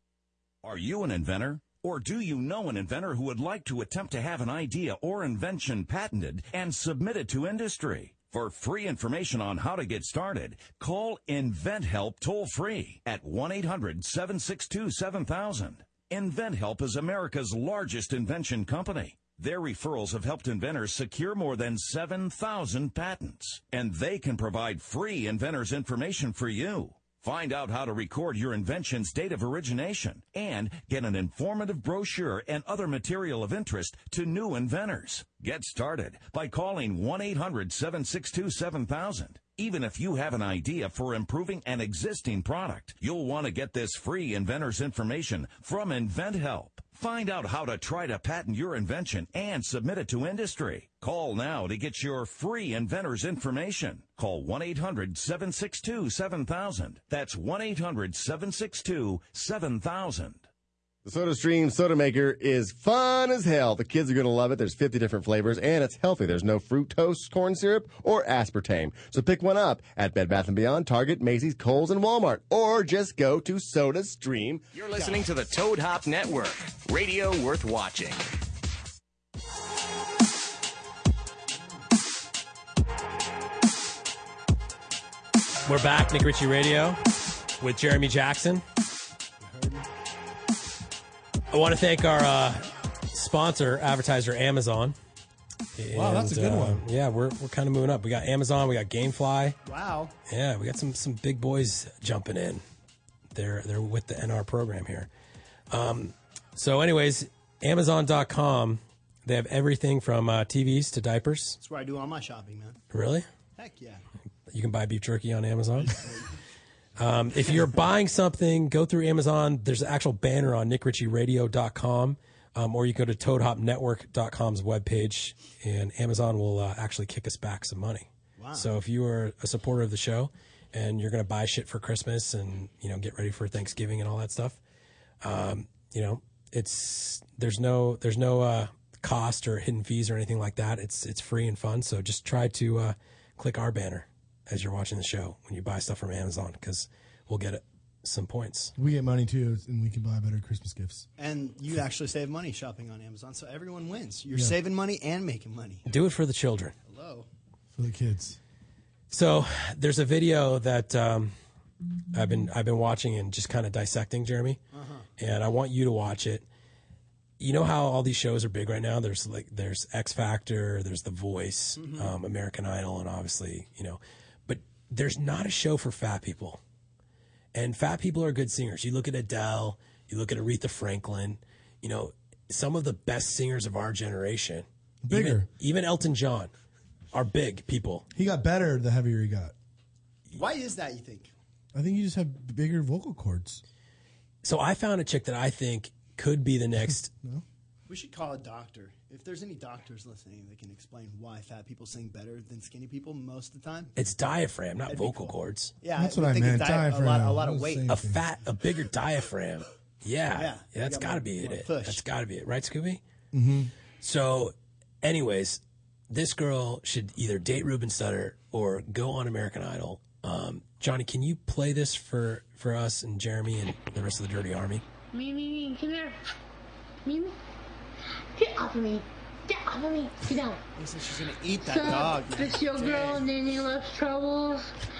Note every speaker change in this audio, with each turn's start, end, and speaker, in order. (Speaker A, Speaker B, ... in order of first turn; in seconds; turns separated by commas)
Speaker A: 0.6-60.5, Speaker B: 61.0-74.7, Speaker C: 74.7-78.3, Speaker D: 85.7-87.0, Speaker D: 87.6-88.6, Speaker E: 89.4-89.9, Speaker D: 91.5-95.0, Speaker D: 95.8-99.6, Speaker F: 95.9-96.8, Speaker E: 99.6-100.1, Speaker D: 100.3-102.6, Speaker D: 103.3-105.1, Speaker D: 105.7-111.6, Speaker E: 111.6-112.8, Speaker D: 112.9-113.2, Speaker E: 113.6-114.0, Speaker D: 114.5-116.0, Speaker E: 115.8-116.3, Speaker D: 117.0-134.6, Speaker E: 128.4-128.7, Speaker D: 135.2-148.7, Speaker F: 148.8-151.1, Speaker E: 151.2-155.8, Speaker D: 155.8-156.7, Speaker E: 156.8-157.3, Speaker F: 157.8-158.4, Speaker D: 159.1-161.3, Speaker D: 162.1-164.6, Speaker E: 164.7-165.1, Speaker D: 165.2-166.4, Speaker D: 167.4-176.6, Speaker E: 171.8-172.1, Speaker D: 177.5-186.5, Speaker F: 185.0-185.5, Speaker D: 187.1-188.1, Speaker F: 188.1-189.5, Speaker E: 190.3-191.3, Speaker F: 191.7-193.6, Speaker D: 194.4-197.1, Speaker E: 197.9-203.9, Speaker D: 203.9-205.7, Speaker E: 204.9-207.9, Speaker F: 205.9-208.2, Speaker D: 207.9-213.0, Speaker E: 210.3-212.0, Speaker F: 213.3-213.7, Speaker D: 214.0-215.6, Speaker D: 216.1-224.8, Speaker G: 225.1-226.2, Speaker G: 227.0-227.3, Speaker G: 228.3-230.6, Speaker E: 230.8-233.2, Speaker G: 231.6-234.8